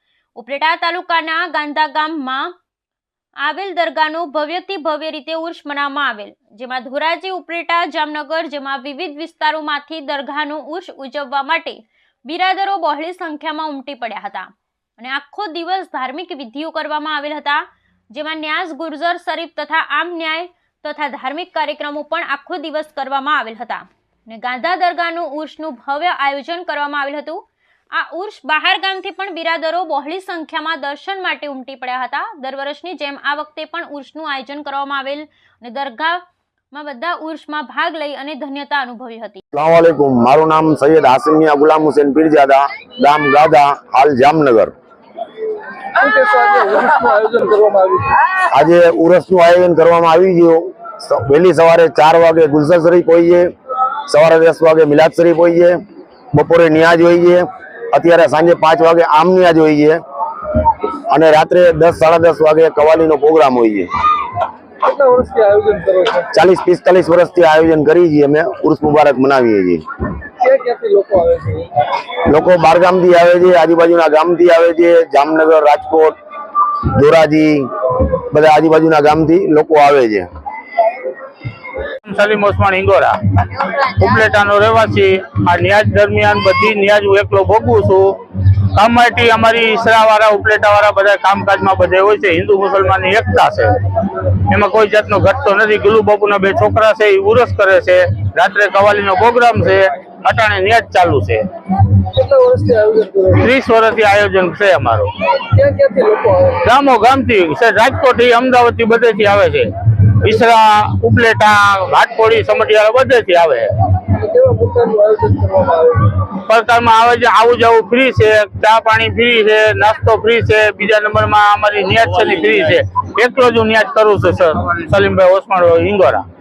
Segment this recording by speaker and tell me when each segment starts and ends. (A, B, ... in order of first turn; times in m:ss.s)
0:00.4-0:02.5 A
0:03.4-0:27.4 A
0:27.9-0:39.4 A
0:39.5-0:44.7 B
0:45.9-0:48.2 C
0:48.5-0:53.5 B
0:54.1-0:55.8 B
0:56.3-1:00.0 B
1:01.1-1:03.9 B
1:04.8-1:06.3 C
1:06.3-1:09.8 B
1:10.4-1:11.7 C
1:12.2-1:16.2 B
1:16.9-1:17.7 B
1:18.3-1:20.3 B
1:22.0-1:28.2 D
1:28.7-1:33.8 D
1:34.5-1:41.5 D
1:42.0-1:43.5 C
1:43.4-1:45.1 D
1:45.4-1:46.6 C
1:46.6-1:53.7 D
1:54.1-1:56.3 C
1:56.5-2:06.2 D